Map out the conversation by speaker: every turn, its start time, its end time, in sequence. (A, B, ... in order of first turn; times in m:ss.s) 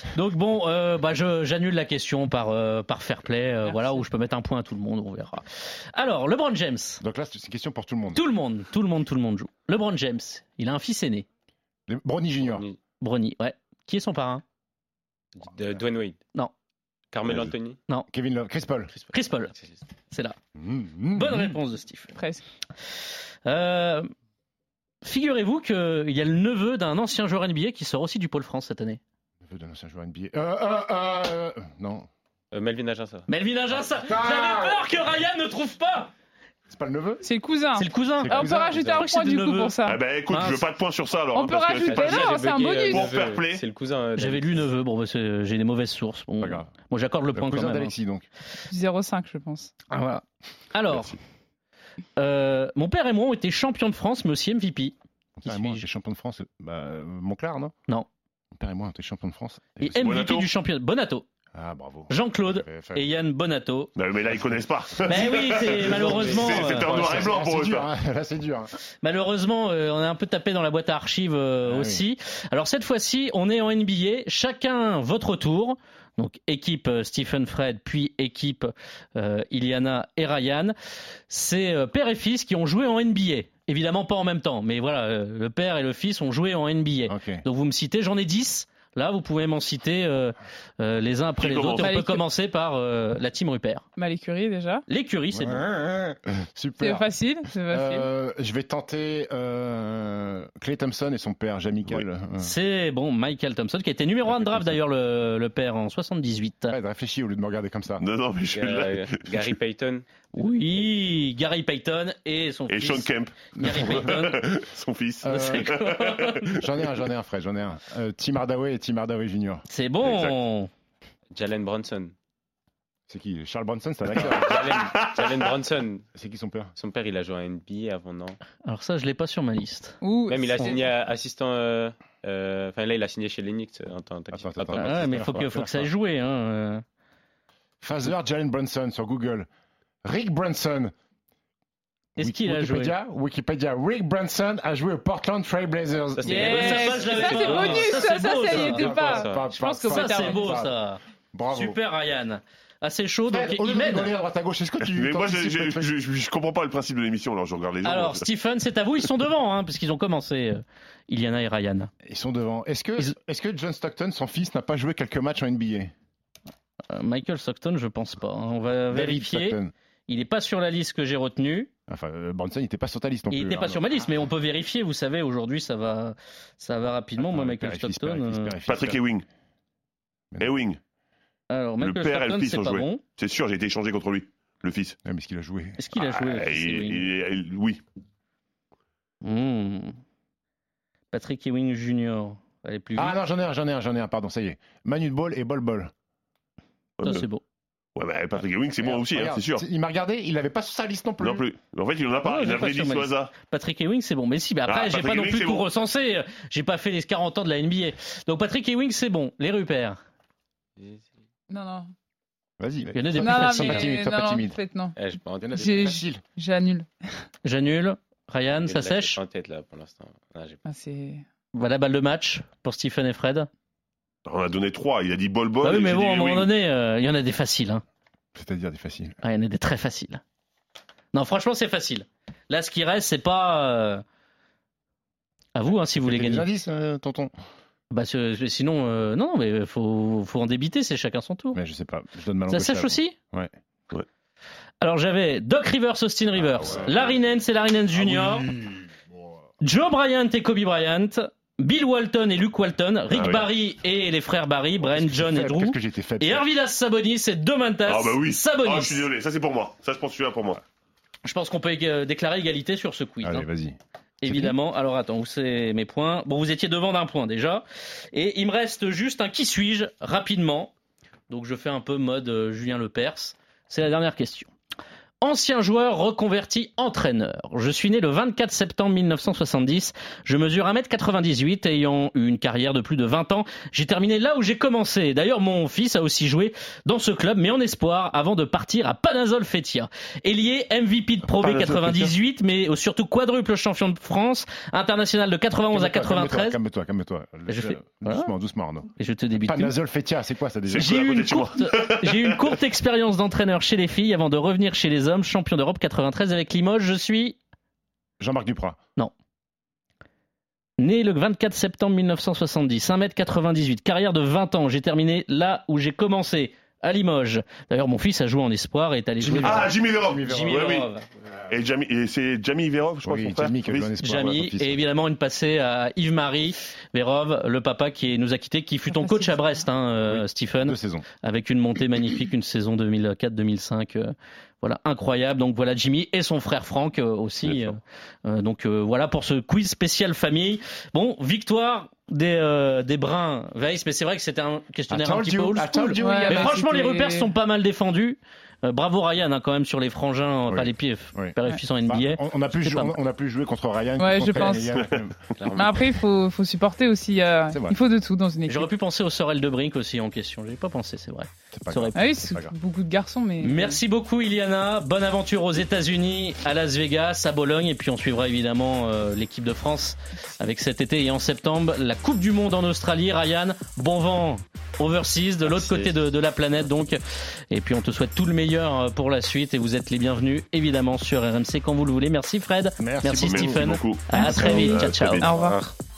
0:00.1-0:07.0 A
0:03.6-0:04.1 B
0:07.0-0:08.2 C
0:08.1-0:11.3 A
0:11.9-0:12.6 C
0:12.4-0:12.8 D
0:13.0-0:14.4 A
0:15.4-0:16.2 D
0:17.1-0:17.8 D
0:17.3-0:17.5 E
0:18.1-0:18.9 C
0:18.9-0:19.9 D
0:19.1-0:19.5 A
0:20.1-0:20.4 A
0:20.6-0:21.5 C
0:21.2-0:22.1 A
0:22.2-0:22.4 B
0:23.5-0:24.1 A
0:25.0-0:29.0 A
0:29.4-0:32.1 C
0:32.5-0:33.3 D
0:33.3-0:36.1 A
0:34.0-0:34.8 C
0:36.7-0:37.2 C
0:37.2-0:40.0 B
0:37.8-0:39.8 A
0:38.2-0:39.1 C
0:39.8-0:43.6 E
0:40.3-0:40.6 A
0:41.3-0:43.1 B
0:41.9-0:44.7 D
0:41.9-0:42.5 A
0:44.2-0:47.9 A
0:46.4-0:46.7 C
0:47.4-0:48.3 C
0:48.7-0:49.7 B
0:49.9-0:50.2 A
0:50.7-0:51.2 A
0:50.9-0:51.2 E
0:52.2-0:55.8 A
0:55.4-0:57.8 C
0:58.5-1:00.2 C
0:59.8-1:01.2 A
1:00.0-1:00.5 E
1:01.5-1:03.1 C
1:02.1-1:03.9 A
1:04.0-1:07.9 E
1:05.1-1:07.4 A
1:05.8-1:08.7 C
1:09.0-1:20.7 A
1:11.7-1:12.0 C
1:21.3-1:33.8 A
1:27.1-1:27.4 C
1:31.4-1:32.0 E
1:31.8-1:32.2 B
1:34.0-1:34.8 B
1:34.9-1:35.6 A
1:35.3-1:37.1 C
1:36.8-1:38.1 B
1:37.7-1:42.6 C
1:42.4-1:46.8 A
1:44.2-1:44.8 C
1:46.7-1:48.0 C
1:48.0-1:49.6 E
1:48.6-1:50.0 D
1:50.4-1:54.4 A
1:52.7-1:56.5 E
1:53.6-1:54.3 C
1:55.2-1:55.7 C
1:55.3-1:56.4 A
1:56.5-1:59.6 C
1:59.7-2:00.7 A
2:00.0-2:00.4 E
2:01.4-2:02.1 D
2:03.1-2:04.7 C
2:04.2-2:05.4 E
2:04.4-2:06.1 D
2:06.2-2:06.7 C
2:06.8-2:08.4 D
2:08.7-2:10.0 A
2:10.0-2:10.8 B
2:10.3-2:15.5 D
2:14.3-2:15.9 C
2:14.7-2:16.8 A
2:17.8-2:19.5 C
2:20.0-2:20.9 C
2:22.2-2:23.0 A
2:22.2-2:26.7 C
2:26.2-2:27.9 D
2:26.3-2:29.1 A
2:26.3-2:30.6 B
2:28.5-2:30.7 C
2:29.0-2:29.4 D
2:29.8-2:31.0 A
2:31.3-2:31.8 C
2:31.5-2:34.1 A
2:33.3-2:35.9 C
2:34.8-2:38.3 E
2:37.8-2:41.9 A
2:42.0-2:45.9 C
2:46.9-2:51.7 A
2:48.9-2:49.7 C
2:51.9-2:53.8 C
2:53.3-2:58.5 A
2:57.2-2:59.0 C
2:58.7-2:59.2 E
3:00.4-3:00.8 E
3:01.5-3:03.1 A
3:01.8-3:05.0 E
3:05.0-3:05.8 C
3:05.8-3:07.1 A
3:05.9-3:07.8 E
3:09.2-3:10.0 A
3:11.1-3:13.2 A
3:13.0-3:15.9 C
3:17.0-3:17.3 E
3:17.0-3:17.4 A
3:18.0-3:19.6 E
3:18.8-3:21.4 C
3:21.2-3:23.4 E
3:22.2-3:30.0 A
3:24.7-3:25.7 E
3:30.8-3:31.1 D
3:31.5-3:31.9 B
3:32.6-3:34.6 C
3:32.9-3:33.9 A
3:33.2-3:35.0 B
3:35.0-3:35.7 D
3:35.4-3:36.2 C
3:35.6-3:36.9 B
3:37.4-3:39.2 A
3:38.6-3:40.6 D
3:40.7-3:41.2 B
3:41.6-3:43.5 A
3:44.2-3:46.5 E
3:45.6-3:47.8 A
3:48.4-3:49.2 C
3:49.2-3:50.2 A
3:51.1-3:54.0 A
3:55.6-3:56.4 A
3:56.0-3:57.3 C
3:57.9-4:01.6 A
4:01.5-4:03.5 C
4:02.5-4:03.2 A
4:04.8-4:08.5 A
4:06.4-4:07.2 C
4:08.0-4:08.6 C
4:09.6-4:19.1 A
4:13.1-4:13.5 E
4:14.8-4:16.5 C
4:17.9-4:20.6 E
4:21.2-4:23.5 A
4:23.2-4:24.6 C
4:24.2-4:30.7 A
4:31.3-4:34.5 A
4:35.2-4:56.6 A
4:51.3-4:52.1 E
4:55.7-4:58.9 C
4:57.5-4:58.3 A
4:59.0-4:59.7 A
4:59.4-5:01.0 C
5:00.7-5:02.6 E
5:00.8-5:07.4 A
5:08.2-5:08.8 C
5:10.8-5:21.0 A
5:19.2-5:20.8 C
5:19.4-5:20.9 E
5:21.5-5:24.0 E
5:23.0-5:24.8 C
5:24.0-5:53.0 A
5:28.9-5:29.7 B
5:30.1-5:31.1 C
5:37.4-5:37.8 E
5:44.9-5:46.6 C
5:46.0-5:47.3 B
5:50.5-5:51.3 C
5:51.9-5:55.2 C
5:54.0-5:54.8 B
5:55.4-5:55.8 D
5:55.5-5:58.7 B
5:58.5-6:02.0 A
6:01.5-6:02.5 C
6:02.0-6:03.8 B
6:03.4-6:17.0 A
6:17.5-6:25.3 A
6:22.8-6:23.8 C
6:23.2-6:25.6 E
6:24.2-6:25.6 B
6:25.3-6:25.6 D